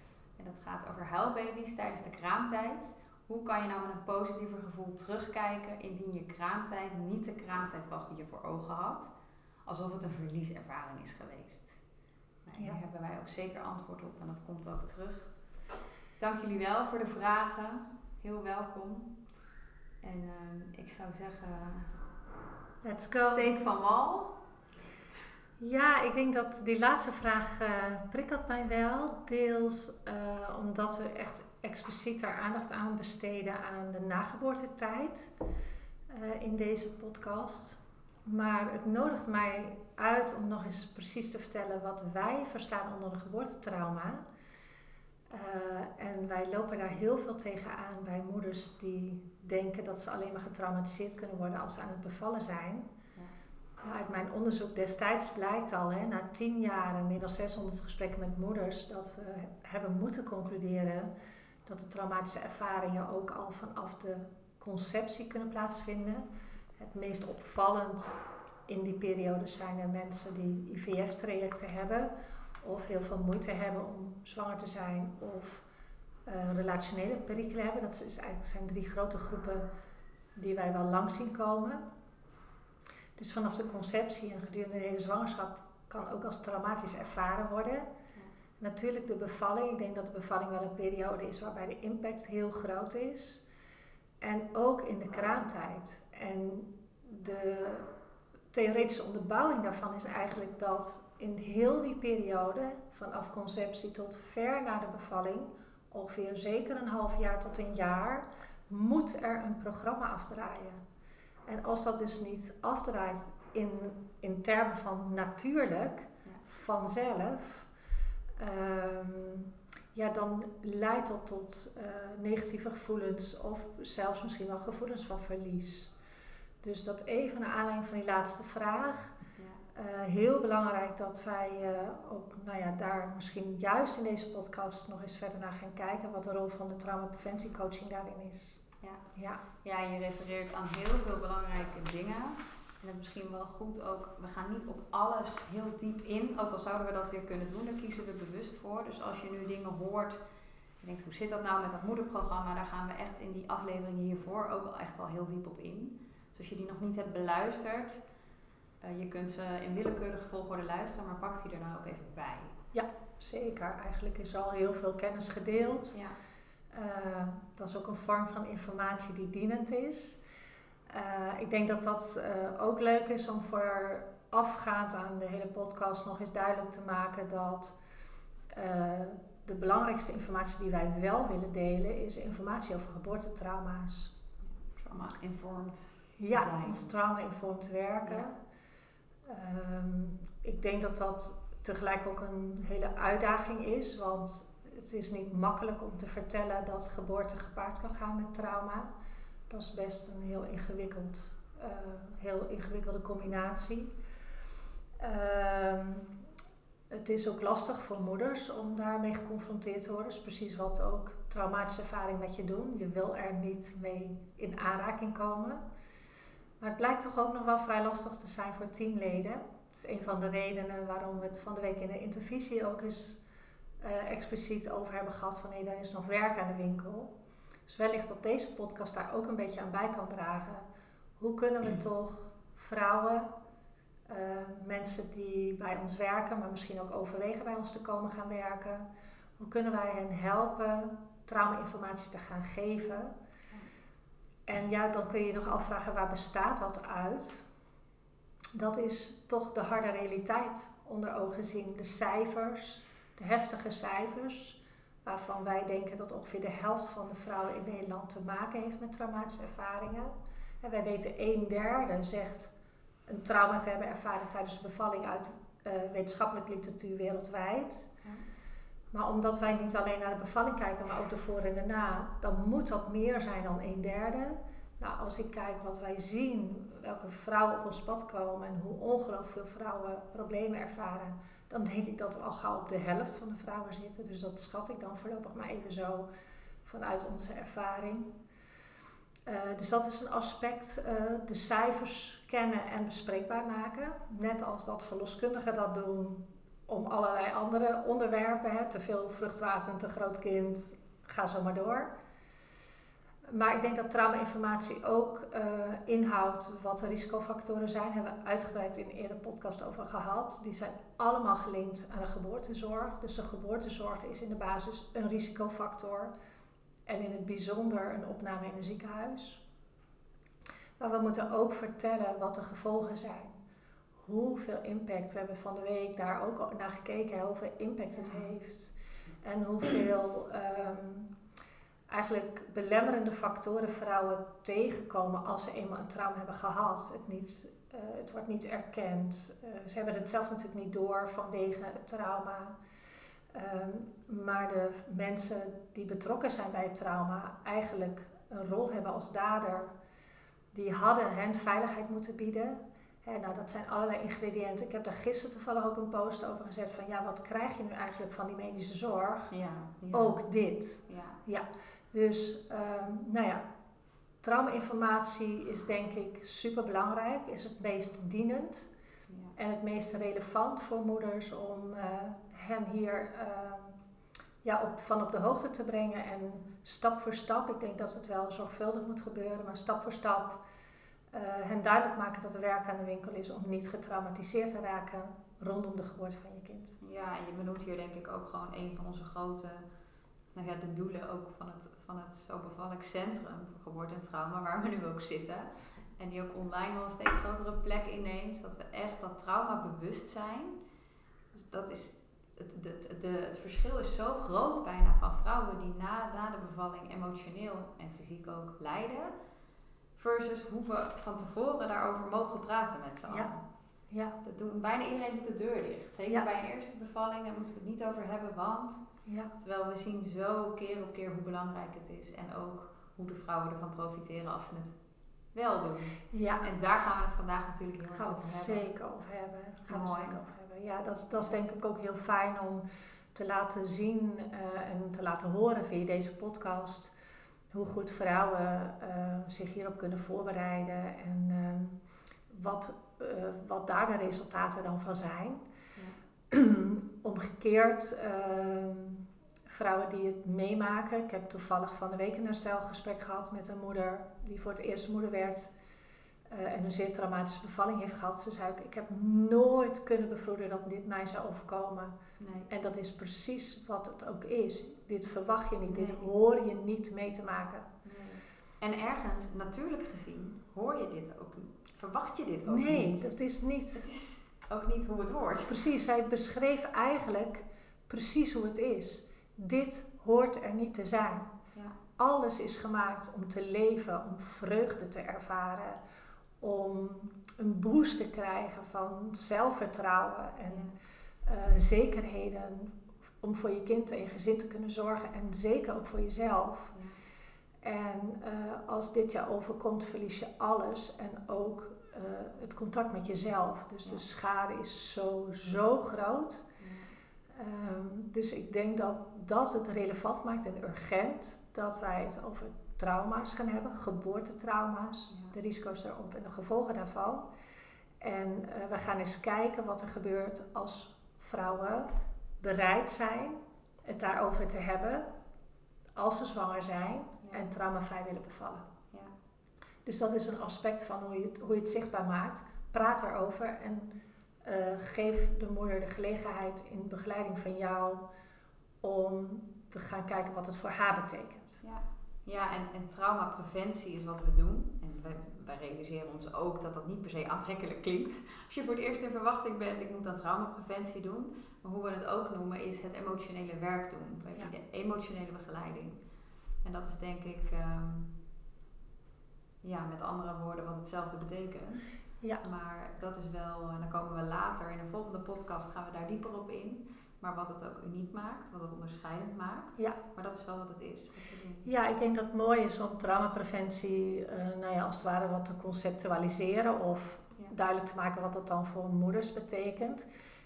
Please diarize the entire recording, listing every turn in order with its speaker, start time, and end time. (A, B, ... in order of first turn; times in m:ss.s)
0:00.4-0:09.1 A
0:09.6-0:11.8 A
0:12.5-0:15.3 A
0:16.2-0:19.1 A
0:20.0-0:22.0 A
0:22.8-0:23.5 B
0:23.2-0:24.4 A
0:25.6-0:35.3 B
0:36.1-0:44.2 B
0:45.3-0:52.9 B
0:53.8-1:01.1 B
1:01.7-1:06.2 B
1:06.8-1:15.6 B
1:16.3-1:19.7 B
1:20.4-1:21.8 B
1:23.2-1:27.9 B
1:28.6-1:33.4 B
1:34.2-1:37.9 B
1:38.5-1:50.8 B
1:51.5-1:57.7 B
1:58.4-2:05.9 B
2:06.6-2:09.2 B
2:09.4-2:09.6 A
2:09.7-2:19.4 B
2:19.6-2:30.2 A
2:30.8-2:38.0 A
2:38.8-2:42.6 A
2:42.7-2:46.0 B
2:46.7-2:50.2 B
2:50.9-2:57.8 B
2:58.5-3:04.1 B
3:04.6-3:06.9 A
3:06.2-3:08.3 B
3:09.2-3:18.9 B
3:19.5-3:23.9 B
3:25.0-3:26.1 B
3:26.9-3:35.6 B
3:36.6-3:43.2 B
3:43.8-3:47.1 B
3:47.7-3:50.7 B
3:51.2-3:53.3 B
3:54.1-3:58.9 B
3:59.4-4:03.1 B
4:04.5-4:07.5 B
4:08.5-4:22.5 B
4:23.1-4:27.9 B
4:28.9-4:46.1 B
4:46.6-4:48.1 B
4:49.3-5:01.9 B
5:03.3-5:16.1 B
5:16.9-5:19.4 B
5:20.8-5:23.4 B
5:24.0-5:31.1 B
5:31.9-5:42.6 B
5:43.3-5:49.7 B
5:50.5-5:59.3 B
5:59.3-6:00.2 A
5:59.9-6:03.4 B
6:00.9-6:01.2 A
6:04.2-6:08.7 B
6:09.1-6:09.4 A
6:09.4-6:13.8 B
6:14.4-6:20.4 B
6:21.1-6:26.8 B
6:26.8-6:29.7 A
6:30.4-6:40.6 A
6:41.4-6:49.1 A
6:50.0-6:53.4 A
6:53.9-6:54.2 B
6:54.2-6:58.8 A
6:59.1-6:59.3 B
6:59.4-7:04.8 A
7:05.3-7:08.7 A
7:06.1-7:06.5 B
7:07.9-7:16.9 B
7:09.7-7:10.2 A
7:17.5-7:25.4 B
7:26.3-7:35.5 B
7:36.3-7:42.0 B
7:42.2-7:42.5 A
7:42.5-7:47.7 B
7:45.7-7:46.1 A
7:47.8-7:53.1 A
7:52.5-7:53.9 B
7:53.7-7:55.6 A
7:55.5-8:01.3 B
8:02.0-8:05.8 B
8:06.4-8:10.7 B
8:10.5-8:10.7 A
8:11.2-8:16.8 B
8:16.8-8:17.0 A
8:17.6-8:26.5 B
8:26.6-8:26.9 A
8:27.3-8:37.3 B
8:35.1-8:35.4 A
8:38.0-8:45.0 B
8:46.0-8:48.6 B
8:47.2-8:47.5 A
8:49.8-8:53.9 B
8:54.4-8:58.0 B
8:58.8-9:01.6 B
9:01.6-9:16.0 A
9:16.6-9:18.2 A
9:19.6-9:31.7 A
9:31.6-9:40.1 B